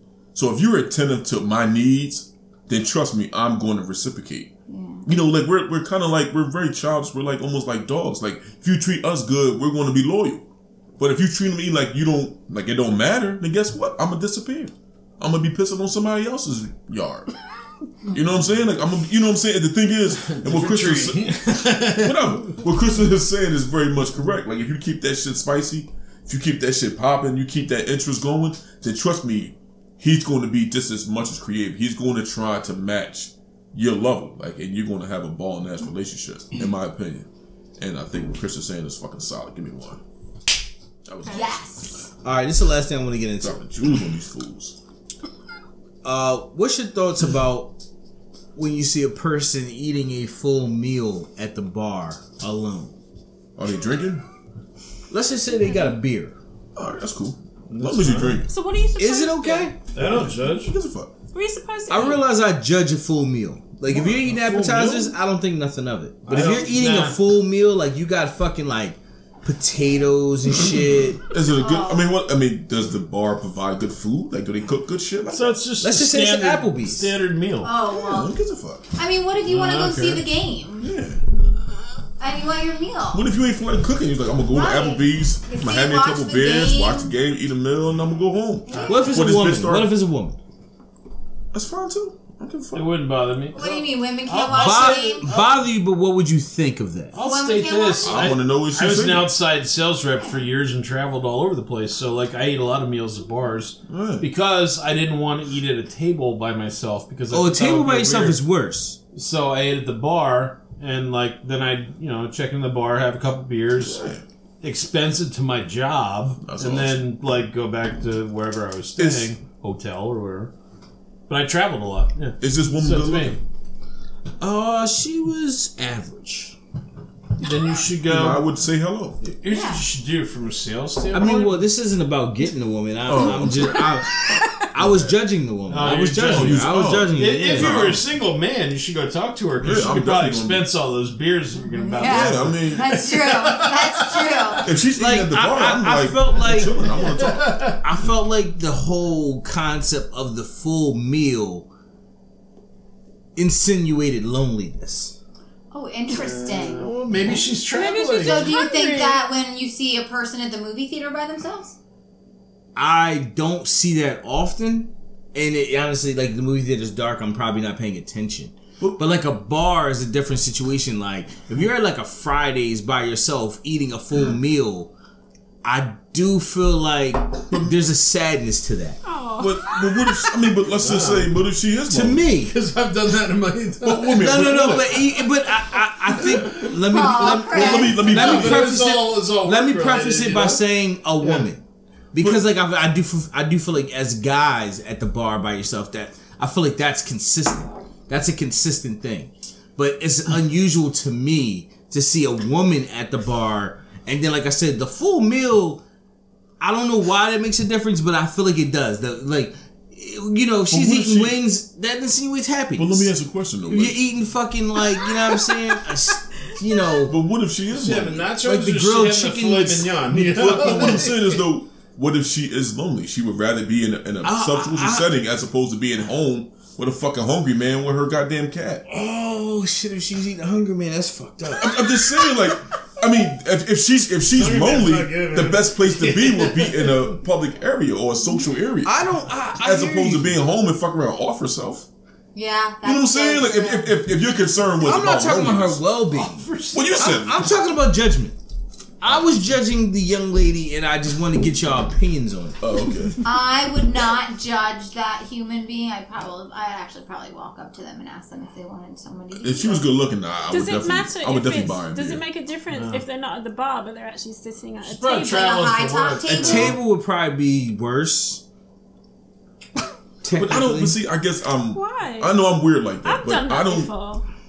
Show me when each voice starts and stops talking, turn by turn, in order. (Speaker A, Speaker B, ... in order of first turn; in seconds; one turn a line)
Speaker A: 0.3-4.5
Speaker B: 4.7-5.1
Speaker A: 5.0-10.4
Speaker A: 11.0-17.3
Speaker A: 18.1-21.3
Speaker C: 20.2-22.6
Speaker A: 21.8-40.0
Speaker A: 41.0-41.6
Speaker B: 41.3-42.0
Speaker D: 42.2-43.6
Speaker A: 43.4-44.8
Speaker D: 46.0-47.8
Speaker D: 48.5-53.0
Speaker A: 53.6-54.2
Speaker D: 55.1-56.4
Speaker A: 56.8-58.5
Speaker C: 57.7-58.4
Speaker E: 58.5-59.7
Speaker D: 59.0-59.8
Speaker C: 59.9-60.7
Speaker A: 60.0-61.1
Speaker E: 61.3-62.2
Speaker D: 61.9-71.2
Speaker A: 63.9-65.1
Speaker C: 66.2-67.2
Speaker A: 70.6-75.6
Speaker B: 71.5-72.1
Speaker C: 75.3-77.8
Speaker D: 75.8-77.1
Speaker B: 77.6-78.3
Speaker A: 77.9-78.9
Speaker B: 78.9-80.9
Speaker C: 79.5-80.2
Speaker A: 80.8-81.2
Speaker B: 82.2-83.3
Speaker A: 83.1-89.9
Speaker B: 84.5-87.2
Speaker B: 88.7-89.3
Speaker C: 88.7-89.2
Speaker D: 88.9-90.4
Speaker A: 91.5-92.9
Speaker C: 92.7-95.6
Speaker B: 93.5-95.4
Speaker D: 94.5-97.2
Speaker C: 97.1-108.4
Speaker B: 97.2-98.4
Speaker A: 98.0-99.3
Speaker A: 103.9-104.3
Speaker D: 107.3-109.0
Speaker C: 109.1-114.0
Speaker A: 113.8-114.2
Speaker C: 114.6-120.5
Speaker A: 116.4-117.0
Speaker A: 119.0-119.3
Speaker C: 121.3-123.4
Speaker A: 122.4-123.4
Speaker D: 124.4-126.6
Speaker C: 127.4-128.5
Speaker A: 128.1-129.2
Speaker C: 129.2-131.6
Speaker B: 129.5-129.9
Speaker D: 131.1-137.9
Speaker A: 133.1-134.0
Speaker E: 133.6-134.6
Speaker A: 134.8-135.1
Speaker C: 135.7-144.7
Speaker A: 135.8-138.0
Speaker A: 139.6-140.7
Speaker B: 141.6-144.7
Speaker A: 142.0-142.9
Speaker A: 144.6-147.7
Speaker D: 145.0-146.8
Speaker C: 146.8-147.8
Speaker D: 147.8-151.7
Speaker D: 153.4-155.2
Speaker B: 155.7-157.3
Speaker C: 156.1-158.6
Speaker E: 157.7-159.2
Speaker B: 158.2-161.8
Speaker D: 162.8-174.9
Speaker D: 175.6-179.0
Speaker E: 179.1-180.3
Speaker A: 179.4-182.2
Speaker C: 180.8-181.3
Speaker D: 181.9-182.5
Speaker C: 182.3-184.8
Speaker A: 183.8-185.1
Speaker D: 184.2-205.8
Speaker C: 186.1-186.7
Speaker A: 186.3-186.6
Speaker B: 186.8-188.1
Speaker A: 187.4-188.8
Speaker C: 188.0-190.6
Speaker C: 191.2-191.5
Speaker D: 206.6-213.1
Speaker A: 210.7-211.4
Speaker A: 212.8-214.0
Speaker D: 213.7-217.2
Speaker E: 215.0-215.8
Speaker A: 217.0-218.3
Speaker C: 217.7-221.4
Speaker D: 218.4-220.4
Speaker A: 220.2-228.8
Speaker D: 224.2-225.1
Speaker D: 228.9-232.2
Speaker A: 231.6-241.9
Speaker C: 234.3-237.1
Speaker D: 238.8-240.4
Speaker B: 242.3-244.0
Speaker A: 242.8-245.8
Speaker D: 244.8-248.4
Speaker C: 246.1-247.3
Speaker A: 246.7-247.5
Speaker D: 249.0-252.6
Speaker A: 252.6-253.2
Speaker B: 253.2-259.9
Speaker A: 259.4-262.2
Speaker E: 260.5-265.6
Speaker C: 262.7-263.0
Speaker C: 264.9-266.8
Speaker B: 265.3-266.8
Speaker D: 266.3-268.4
Speaker D: 270.2-271.0
Speaker A: 270.3-273.9
Speaker E: 271.7-272.4
Speaker E: 273.0-274.2